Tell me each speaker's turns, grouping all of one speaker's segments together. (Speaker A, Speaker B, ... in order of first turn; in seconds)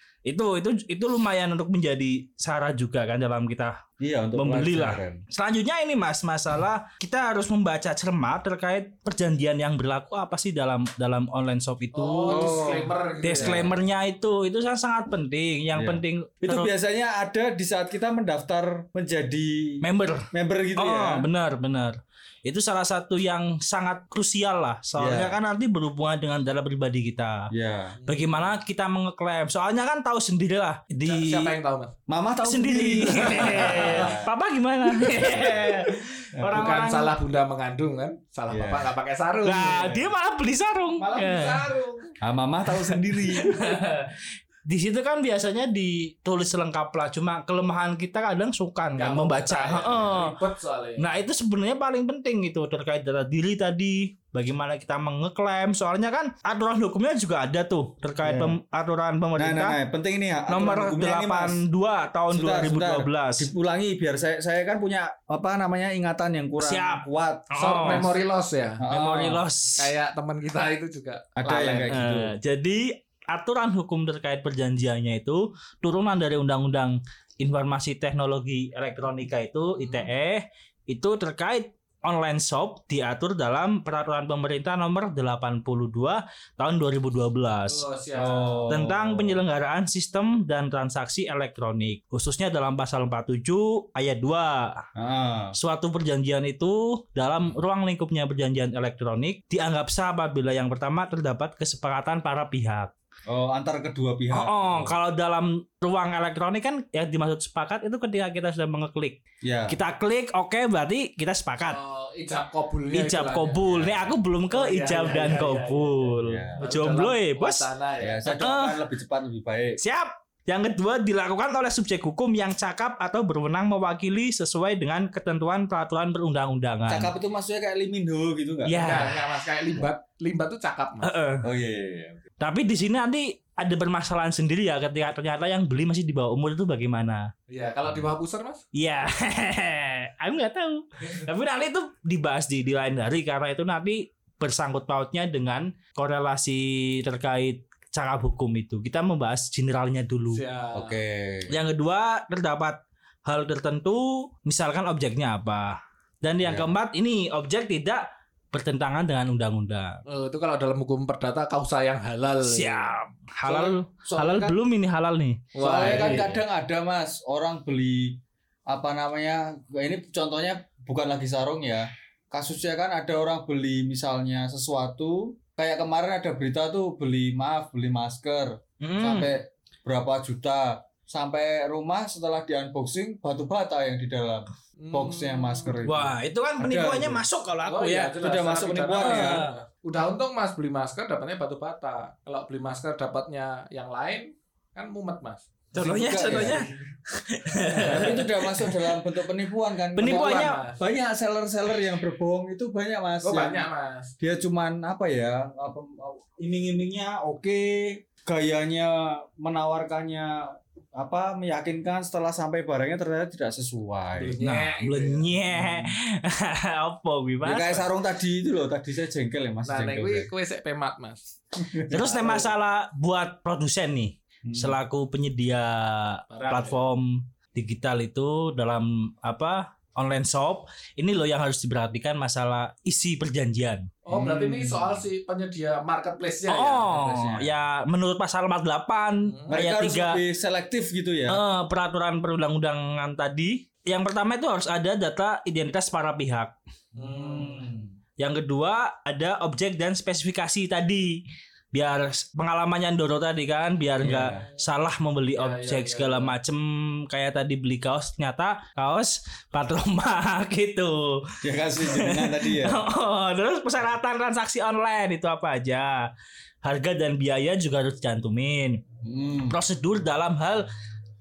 Speaker A: 0.2-3.8, 4.4-12.6, 13.2-16.7, 19.8-27.5, 28.1-31.5, 32.4-37.1, 39.4-41.6, 42.7-50.4, 51.0-59.8, 60.5-63.5, 66.6-68.1, 68.9-69.9, 71.9-87.8, 88.7-94.8, 95.5-102.9, 104.3-111.8, 112.9-117.7, 118.4-118.8, 119.8-127.1, 128.6-129.2, 131.0-131.5, 132.4-137.3, 138.8-150.4, 151.5-160.0, 162.4-166.4, 178.8-179.3, 185.8-188.2, 189.0-189.6, 195.7-198.9, 200.0-200.6, 214.4-217.9, 221.9-233.9, 236.5-240.2, 241.3-246.5, 248.2-251.2, 251.7-266.1, 266.6-268.8, 269.5-270.7
Speaker B: 4.0-5.2, 12.3-13.7, 15.7-21.3, 25.0-25.4, 27.5-28.0, 32.1-34.3, 35.1-35.7, 36.4-36.7, 38.5-38.9, 42.2-43.8, 58.2-58.6, 59.4-61.6, 62.3-68.1, 68.8-69.4, 71.4-72.3, 88.1-89.4, 95.0-95.5, 103.3-105.0, 109.4-109.8, 113.6-114.2, 116.2-116.7, 118.0-119.8, 126.9-129.2, 131.4-132.2, 150.7-151.5, 156.4-156.7, 163.4-164.6, 165.6-187.2, 188.2-189.4, 195.7-196.7, 197.8-203.7, 204.2-214.4, 215.5-215.9, 217.4-220.3, 221.6-222.5, 224.4-224.8, 234.1-235.0, 236.9-237.5, 239.5-241.4, 247.0-247.9, 254.0-254.5, 261.4-262.8, 269.0-269.6
Speaker C: 11.9-13.7, 28.0-28.5, 31.1-31.9, 33.2-34.1, 36.5-40.0, 41.0-42.1, 48.9-51.1, 67.6-68.8, 69.8-72.0, 87.7-88.7, 111.7-113.6, 114.5-118.4, 128.8-131.1, 137.5-138.6, 150.3-151.0, 160.1-162.9, 165.5-166.4, 184.8-185.7, 187.7-195.5, 196.3-196.7, 197.7-198.2, 200.0-200.8, 203.2-204.1, 214.2-215.3, 219.7-221.2, 226.3-226.8, 234.0-236.9, 239.3-239.6, 246.9-247.9, 255.4-256.3